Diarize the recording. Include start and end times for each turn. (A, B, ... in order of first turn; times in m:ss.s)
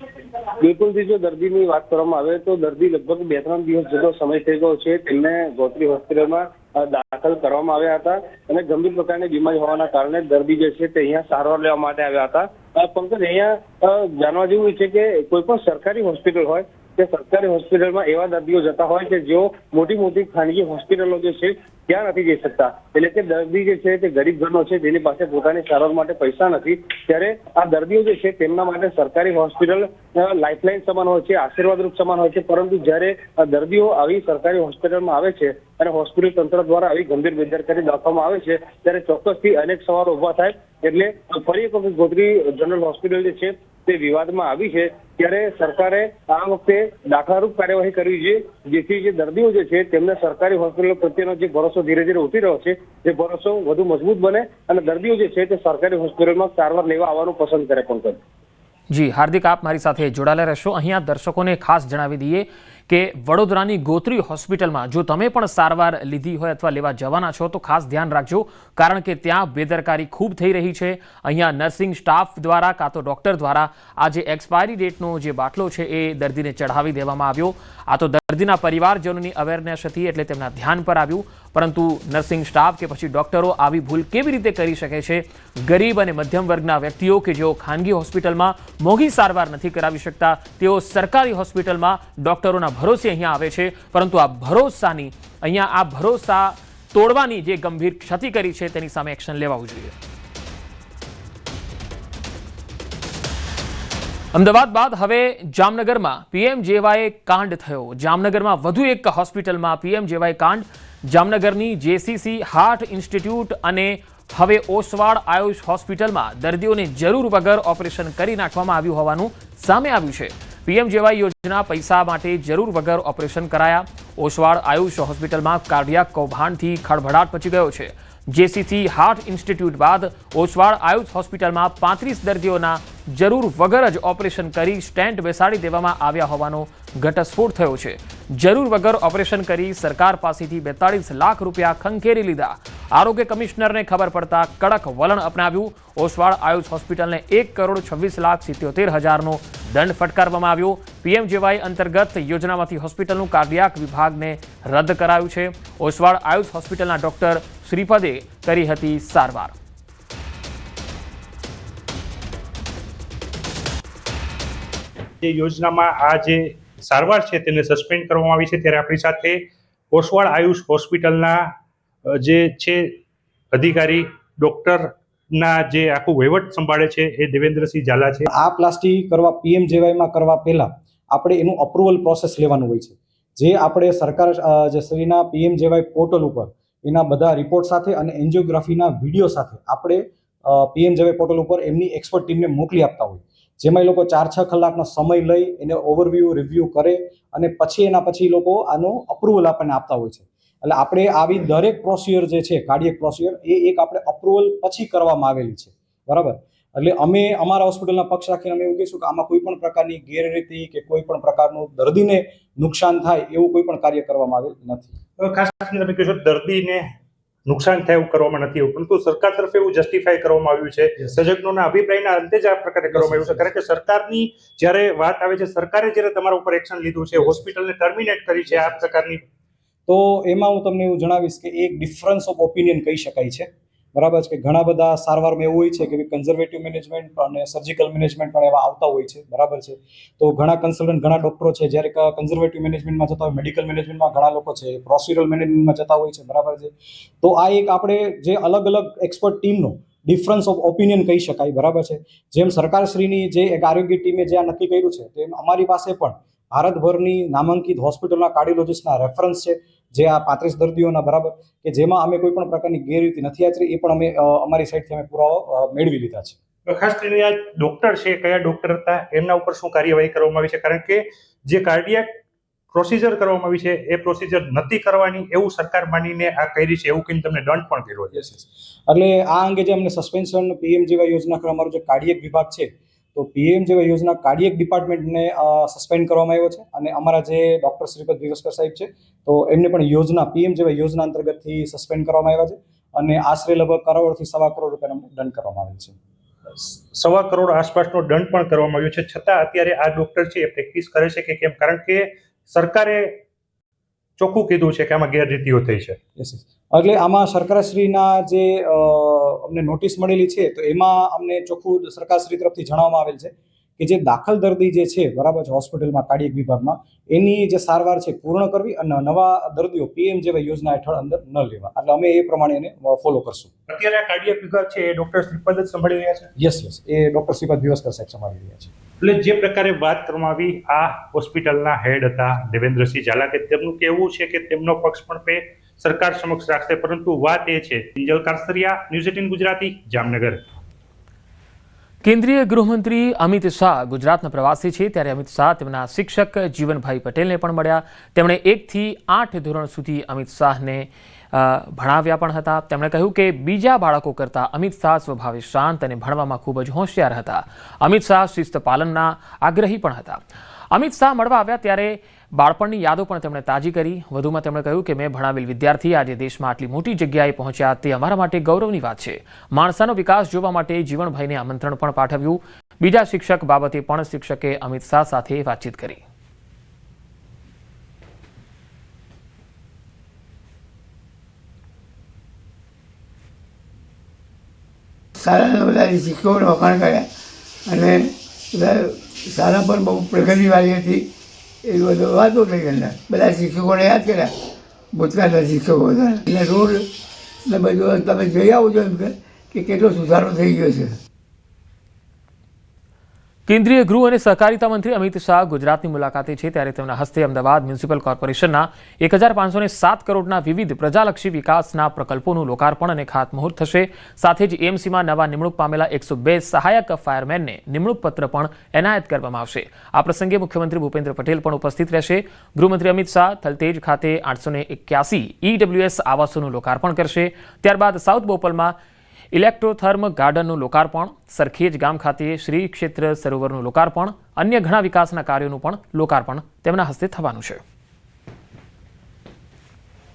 0:00.6-0:58.2 A
0:58.9-1:39.9 B
1:44.3-2:39.5 B
2:45.2-2:49.4 C
2:49.9-2:51.5 C
2:52.1-2:53.0 C
2:53.5-2:58.3 C
2:58.3-3:35.0 D
3:35.2-3:36.9 C
3:37.5-3:49.2 C
3:49.9-4:26.4 D
4:26.7-4:32.2 C
4:32.7-4:38.3 C
4:38.2-4:56.0 D
4:56.6-5:03.2 C
5:04.2-5:06.0 C
5:06.2-5:23.5 D
5:23.7-5:26.3 C
5:26.4-5:28.7 D
5:29.0-5:40.4 C
5:42.0-6:16.0 B
6:25.2-6:27.1 E
6:27.7-6:31.1 E
6:31.7-6:34.3 E
6:34.9-6:36.9 E
6:37.5-6:41.0 E
6:43.5-7:08.8 B
7:09.3-7:17.6 B